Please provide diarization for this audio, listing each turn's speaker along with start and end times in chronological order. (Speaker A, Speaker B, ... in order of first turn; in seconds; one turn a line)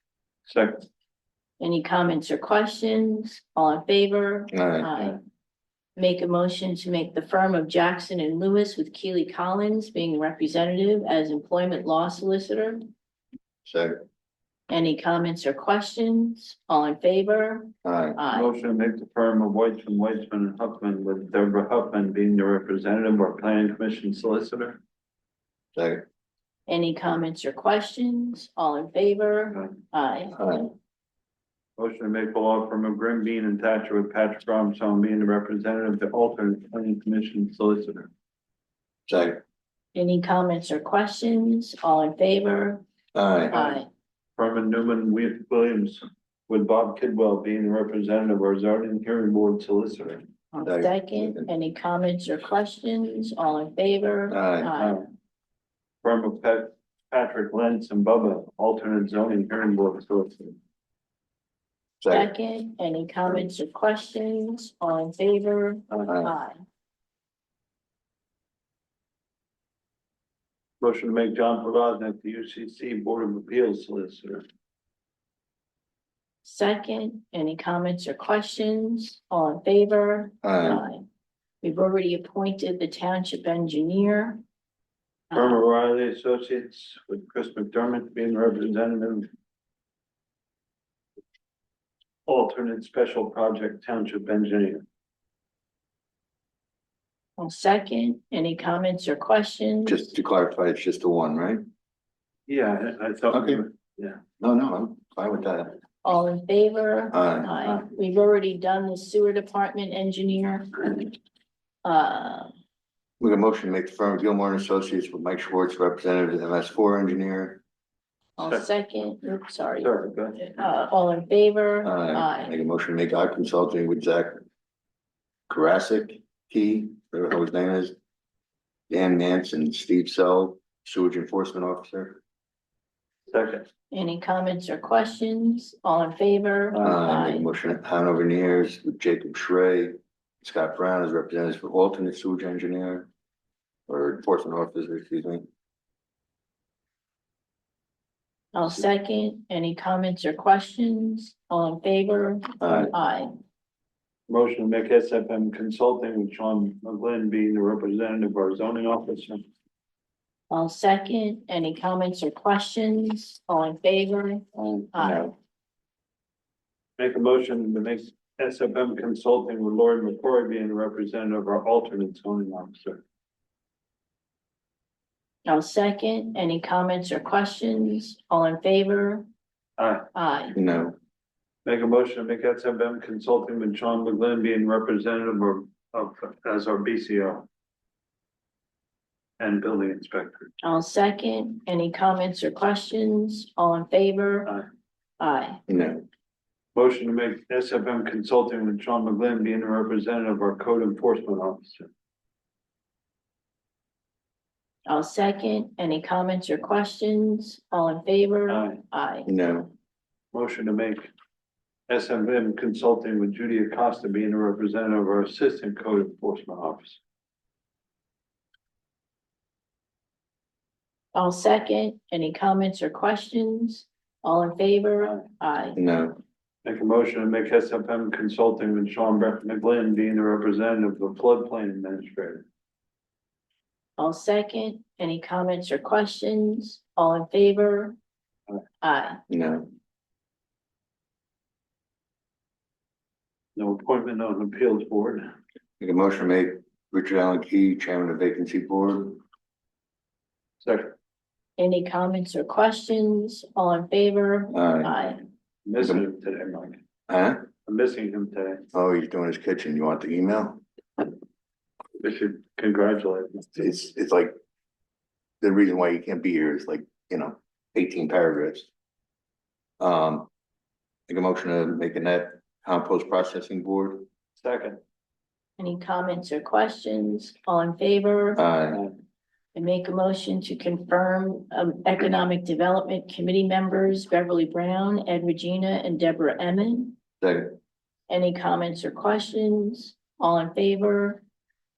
Speaker A: 0.5-0.9
Speaker B: 1.6-5.2
Speaker C: 4.5-5.1
Speaker B: 6.0-12.8
Speaker C: 13.6-14.0
Speaker B: 14.7-18.5
Speaker C: 17.8-18.2
Speaker A: 18.3-24.8
Speaker C: 25.7-26.1
Speaker B: 26.7-30.4
Speaker C: 30.3-30.7
Speaker A: 31.8-38.1
Speaker C: 39.1-39.4
Speaker B: 39.9-42.8
Speaker C: 43.1-43.5
Speaker B: 43.5-43.9
Speaker A: 43.5-43.8
Speaker A: 44.4-50.3
Speaker B: 50.5-55.0
Speaker C: 50.6-51.5
Speaker C: 54.3-54.7
Speaker A: 54.8-55.1
Speaker A: 56.0-60.5
Speaker C: 62.0-62.3
Speaker B: 62.1-66.6
Speaker C: 66.1-66.3
Speaker A: 70.8-74.4
Speaker B: 76.4-81.0
Speaker C: 80.4-80.8
Speaker B: 81.6-84.4
Speaker A: 85.3-89.3
Speaker A: 92.3-94.8
Speaker B: 97.4-100.1
Speaker C: 99.8-101.6
Speaker A: 102.5-104.2
Speaker C: 103.3-103.6
Speaker C: 104.4-105.8
Speaker B: 106.0-111.1
Speaker C: 107.1-107.5
Speaker B: 111.8-112.5
Speaker C: 113.2-117.6
Speaker B: 118.4-122.5
Speaker A: 118.4-118.7
Speaker A: 119.8-120.4
Speaker C: 121.8-124.4
Speaker C: 125.5-127.9
Speaker C: 128.9-132.2
Speaker A: 133.3-133.7
Speaker B: 133.9-137.5
Speaker C: 136.8-143.1
Speaker C: 143.9-145.5
Speaker B: 148.5-153.3
Speaker C: 152.6-152.9
Speaker A: 154.3-159.4
Speaker B: 160.5-165.3
Speaker A: 164.5-164.9
Speaker C: 165.0-165.2
Speaker A: 167.0-173.0
Speaker B: 175.4-179.2
Speaker A: 179.8-180.1
Speaker B: 180.1-180.6
Speaker C: 180.5-180.9
Speaker A: 181.6-187.5
Speaker A: 189.4-190.5
Speaker B: 190.6-194.5
Speaker B: 195.2-195.6
Speaker C: 195.7-196.1
Speaker A: 196.7-201.9
Speaker B: 204.8-209.3
Speaker A: 208.5-208.8
Speaker C: 209.2-209.7
Speaker A: 210.3-211.1
Speaker A: 211.9-217.0
Speaker B: 221.1-225.8
Speaker C: 225.8-226.2
Speaker A: 226.6-232.4
Speaker B: 234.0-237.9
Speaker B: 238.8-239.2
Speaker C: 239.3-239.7
Speaker A: 243.6-245.3
Speaker C: 245.8-249.2
Speaker A: 250.6-250.9
Speaker B: 251.6-255.2
Speaker C: 254.5-254.9
Speaker A: 255.7-256.8
Speaker C: 257.1-257.5
Speaker A: 257.6-258.6
Speaker C: 258.7-260.6
Speaker A: 262.0-263.6
Speaker C: 263.6-264.3
Speaker C: 265.4-268.7
Speaker C: 269.8-270.3
Speaker C: 271.1-274.1
Speaker A: 274.4-274.8
Speaker B: 275.6-278.4
Speaker C: 278.4-278.8
Speaker B: 279.5-287.0
Speaker C: 287.2-287.6
Speaker B: 288.1-291.2